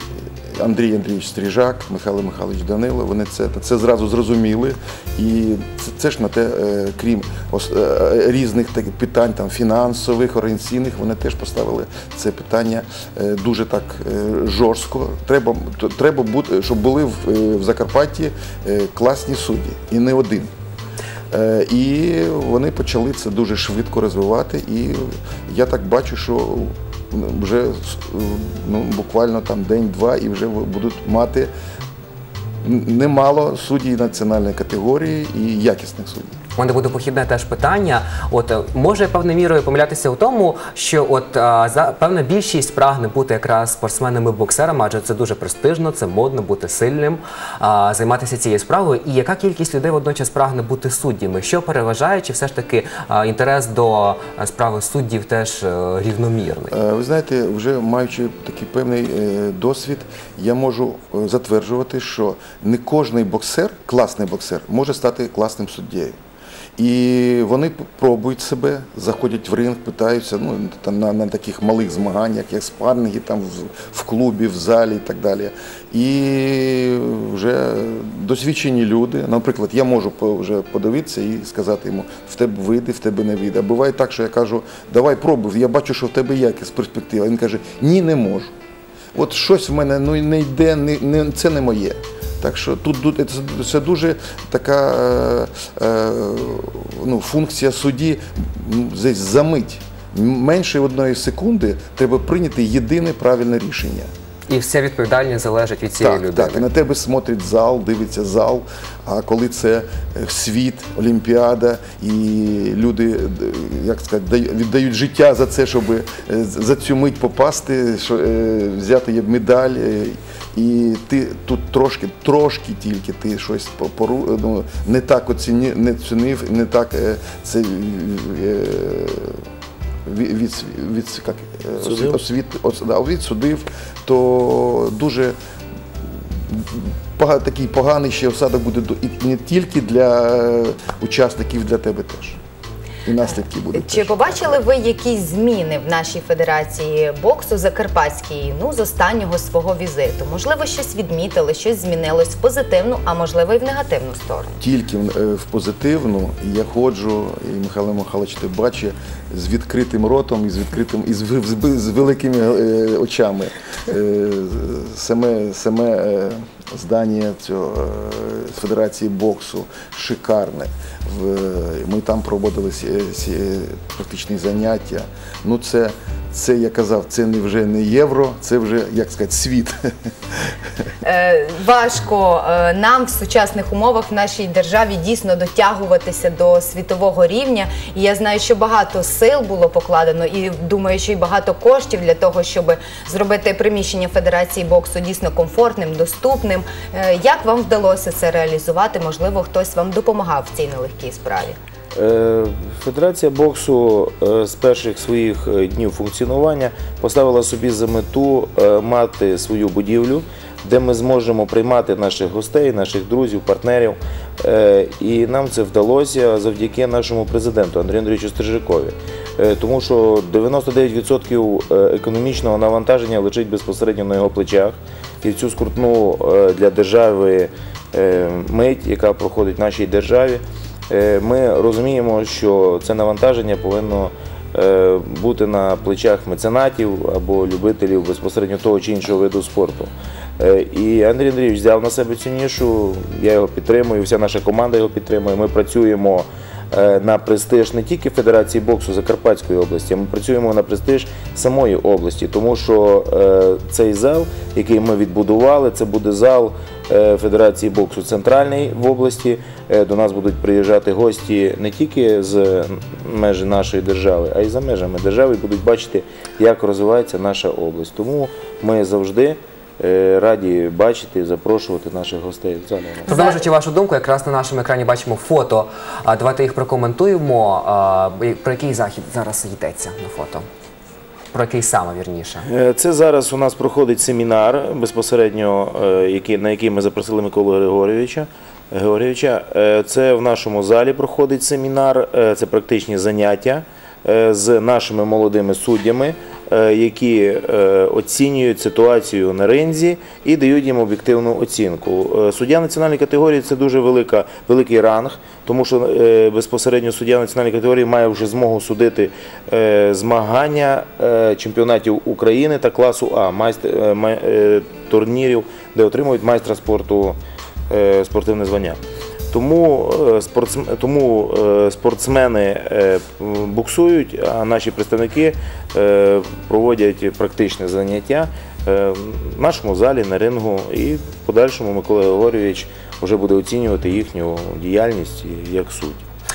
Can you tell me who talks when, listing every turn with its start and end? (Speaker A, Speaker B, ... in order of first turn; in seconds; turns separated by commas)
Speaker A: 0.5-20.5, Speaker A: 21.3-31.5, Speaker A: 32.6-36.4, Speaker B: 36.6-56.7, Speaker A: 56.7-66.2, Speaker A: 66.8-88.5, Speaker A: 89.1-104.1, Speaker B: 104.5-106.6, Speaker A: 106.0-129.4, Speaker A: 130.1-135.3, Speaker C: 131.8-132.2, Speaker A: 136.5-142.4, Speaker A: 143.0-144.6, Speaker D: 143.7-154.5, Speaker A: 154.6-179.9, Speaker D: 181.0-201.6, Speaker C: 201.9-273.1, Speaker B: 273.1-280.4, Speaker D: 273.1-273.4, Speaker B: 281.3-282.5, Speaker C: 282.4-317.2, Speaker C: 317.7-318.8, Speaker C: 319.3-336.0